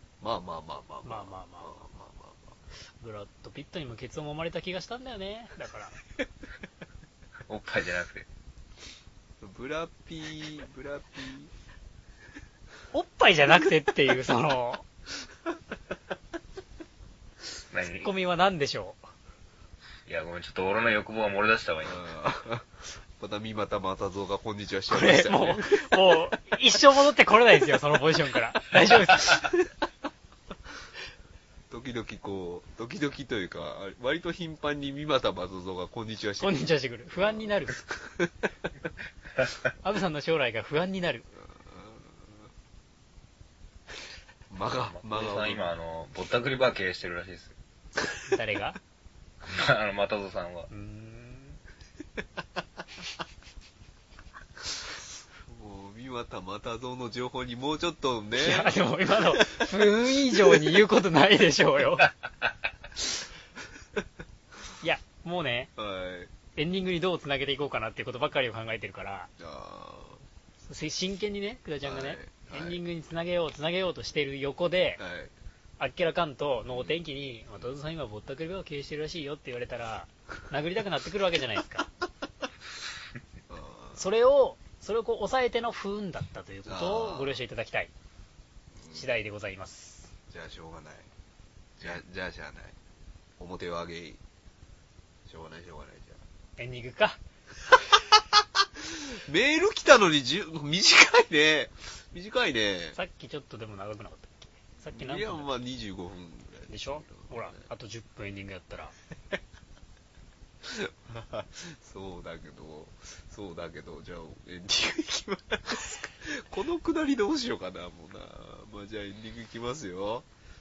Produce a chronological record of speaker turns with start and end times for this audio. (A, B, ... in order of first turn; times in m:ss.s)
0:00.2-0:02.6 A
0:01.0-0:01.7 B
0:03.0-0:06.0 B
0:07.5-0:08.2 C
0:09.4-0:11.5 A
0:12.9-0:14.8 B
0:17.7-0:18.1 C
0:18.0-0:19.0 B
0:20.0-0:22.0 C
0:21.8-0:26.3 A
0:24.9-0:29.5 B
0:29.2-0:29.6 A
0:31.7-0:36.6 A
0:36.4-0:37.8 B
0:37.2-0:38.5 A
0:39.8-0:41.3 B
0:41.4-0:42.4 A
0:44.5-0:45.7 A
0:44.9-0:47.5 C
0:48.3-0:48.8 B
0:49.5-0:50.7 C
0:50.7-0:51.6 B
0:55.4-0:58.7 A
0:58.4-1:02.1 B
0:59.3-0:59.6 A
1:04.8-1:05.7 B
1:05.8-1:06.3 A
1:06.5-1:09.3 B
1:09.4-1:10.2 A
1:10.6-1:15.0 B
1:11.8-1:12.8 A
1:15.0-1:15.3 A
1:15.8-1:21.9 B
1:16.7-1:17.0 A
1:23.5-1:24.0 A
1:24.0-1:27.9 B
1:26.6-1:27.4 A
1:28.8-1:29.1 A
1:28.9-1:30.1 B
1:30.3-1:31.1 A
1:31.8-1:32.8 A
1:33.4-1:34.2 A
1:35.3-1:36.2 A
1:36.6-1:37.2 B
1:37.9-1:43.0 A
1:42.9-1:45.5 B
1:44.9-1:47.6 A
1:46.7-1:48.9 B
1:50.6-2:00.3 A